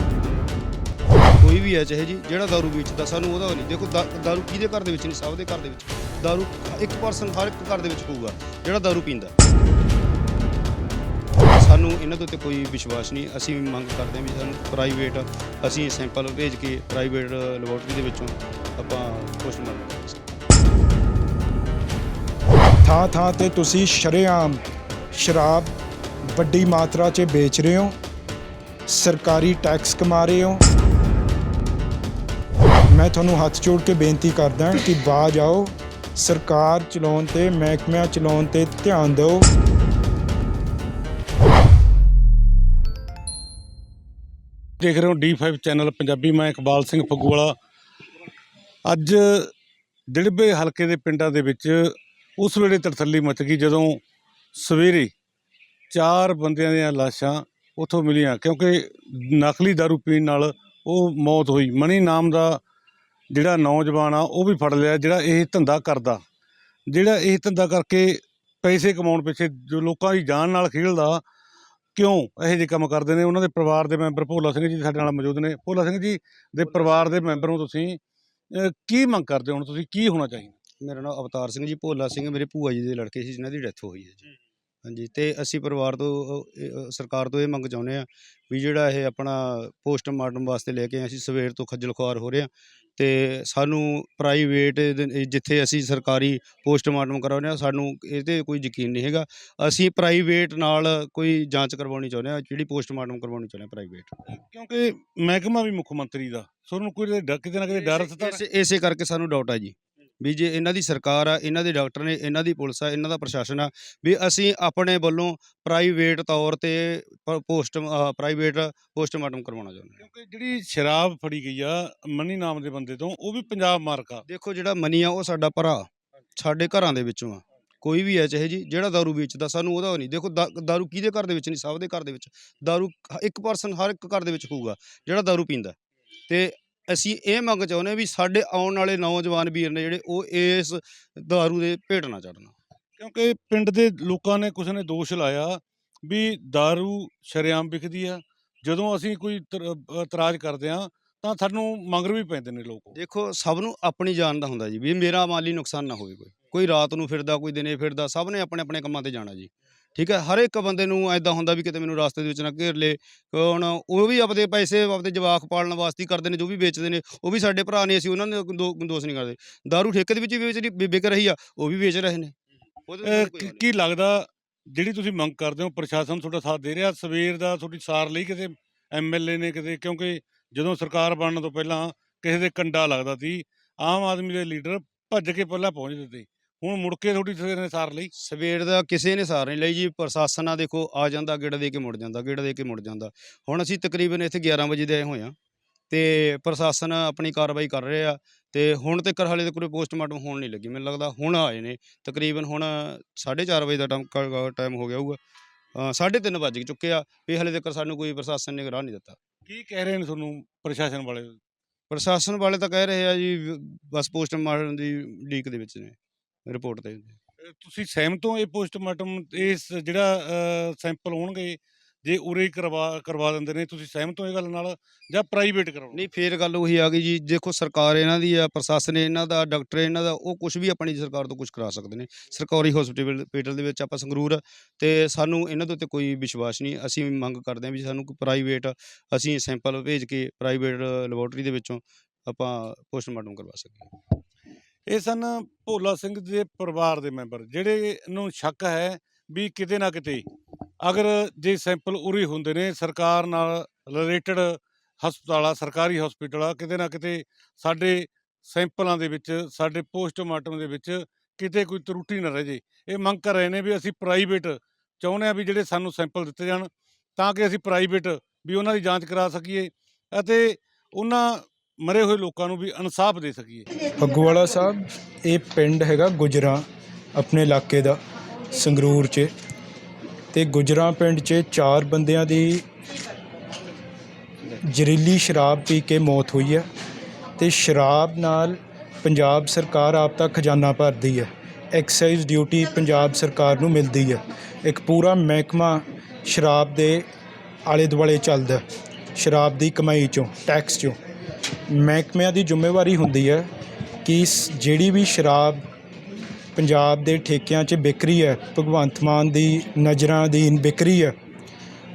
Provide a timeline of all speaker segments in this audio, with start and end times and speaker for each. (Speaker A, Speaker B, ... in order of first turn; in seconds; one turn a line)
Speaker A: 1.4-9.3
Speaker A: 11.5-20.3
Speaker B: 22.8-24.6
Speaker B: 25.1-25.7
Speaker B: 26.4-27.9
Speaker B: 28.9-30.6
Speaker B: 32.9-39.5
Speaker C: 44.8-47.5
Speaker C: 48.9-49.5
Speaker C: 50.1-54.0
Speaker C: 54.6-55.1
Speaker C: 55.9-62.6
Speaker C: 63.3-66.2
Speaker C: 66.9-71.2
Speaker C: 72.0-78.0
Speaker C: 78.5-80.5
Speaker A: 80.8-84.2
Speaker A: 84.9-104.1
Speaker C: 104.3-108.4
Speaker A: 107.8-120.0
Speaker C: 120.0-124.2
Speaker A: 124.3-135.8
Speaker A: 136.3-142.6
Speaker C: 143.0-152.9
Speaker A: 152.9-172.3
Speaker A: 172.9-173.7
Speaker C: 173.1-188.1
Speaker A: 188.2-195.3
Speaker A: 195.9-205.2
Speaker A: 205.8-209.2
Speaker C: 209.5-211.4
Speaker A: 211.9-217.2
Speaker C: 217.4-226.0
Speaker A: 225.9-243.9
Speaker C: 244.9-250.2
Speaker C: 250.8-273.7
Speaker B: 274.0-276.6
Speaker B: 277.2-278.0
Speaker B: 278.5-279.3
Speaker B: 280.3-282.6
Speaker B: 284.6-286.7
Speaker B: 287.4-297.1
Speaker B: 297.7-298.6
Speaker B: 299.2-301.0
Speaker B: 301.7-303.5
Speaker B: 304.0-305.7
Speaker B: 306.6-311.1